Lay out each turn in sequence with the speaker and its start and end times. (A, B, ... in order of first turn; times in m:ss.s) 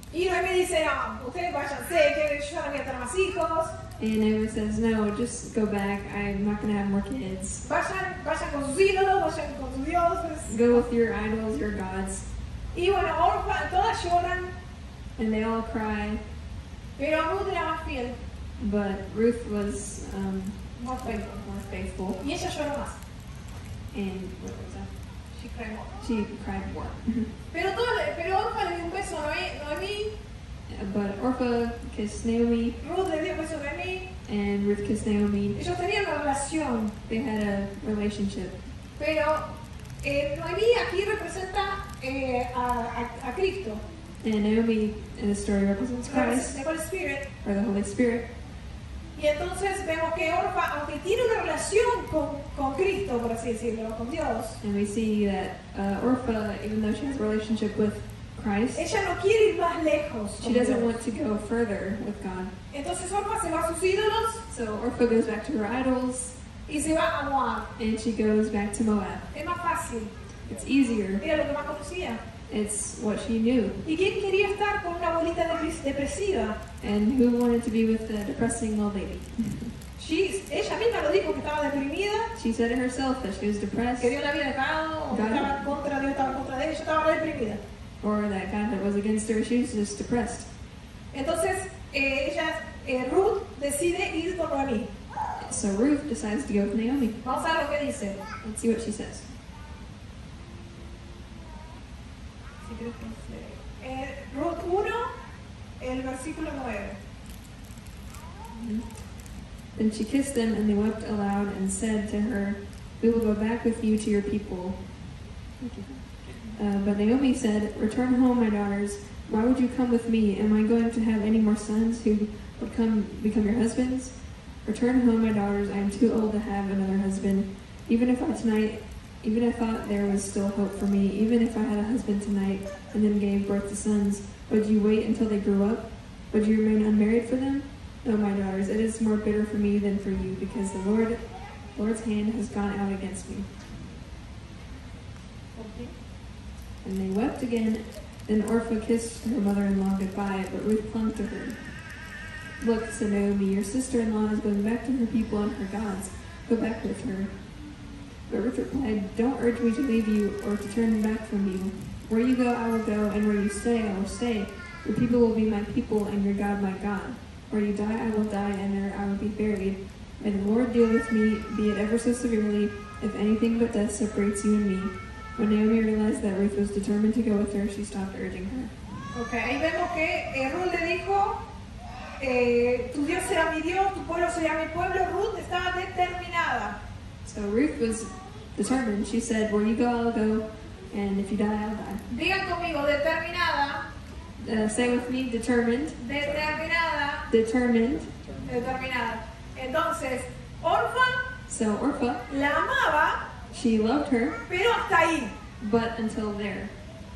0:00.1-0:03.8 A
0:04.0-0:07.6 B
0:07.6-0:10.8 A
0:10.5-0:12.3 B
0:12.7-0:14.5 A
0:15.2-0:16.2 B
0:17.0-0:18.2 A
0:18.6-0:22.2 B
0:20.8-0:21.4 A
0:22.2-0:23.0 A
0:23.9-0:24.9 B
0:25.3-0:26.0 A
0:26.0-0:27.3 B
0:27.5-0:30.1 A
0:30.7-0:32.8 B
0:32.8-0:34.1 A
0:34.3-0:35.6 B
0:35.5-0:37.0 A
0:37.1-0:38.6 B
0:39.0-0:39.5 A
0:40.0-0:43.8 A
0:44.2-0:46.7 B
0:46.1-0:47.3 A
0:47.4-0:48.3 B
0:49.2-0:54.6 A
0:54.6-0:58.8 B
0:58.8-1:01.0 A
1:00.4-1:02.5 B
1:02.7-1:04.4 A
1:04.5-1:06.4 B
1:06.7-1:07.7 A
1:07.8-1:09.3 B
1:09.3-1:10.1 A
1:10.5-1:11.2 B
1:11.2-1:12.2 A
1:12.5-1:13.8 B
1:13.8-1:16.6 A
1:16.8-1:19.8 B
1:20.0-1:22.3 A
1:22.4-1:24.2 B
1:24.0-1:27.6 A
1:25.1-1:25.6 B
1:28.0-1:30.5 B
1:31.1-1:34.9 A
1:35.4-1:37.2 B
1:37.2-1:38.2 A
1:38.4-1:39.3 B
1:42.6-1:45.1 A
1:45.8-1:47.0 A
1:48.5-1:48.9 B
1:49.7-1:54.8 B
1:55.6-2:21.2 B
2:21.7-2:23.5 B
2:25.6-2:26.0 A
2:26.8-2:31.6 B
2:32.6-2:37.4 B
2:38.3-2:58.7 B
2:59.1-3:01.4 A
3:02.2-3:06.8 A
3:07.2-3:12.0 B
3:12.1-3:13.8 A
3:14.4-3:16.0 B
3:16.0-3:17.3 A
3:17.3-3:18.1 B
3:18.4-3:21.3 A
3:21.5-3:22.2 B
3:22.3-3:23.3 A
3:23.5-3:24.4 B
3:24.5-3:25.4 A
3:25.6-3:26.7 B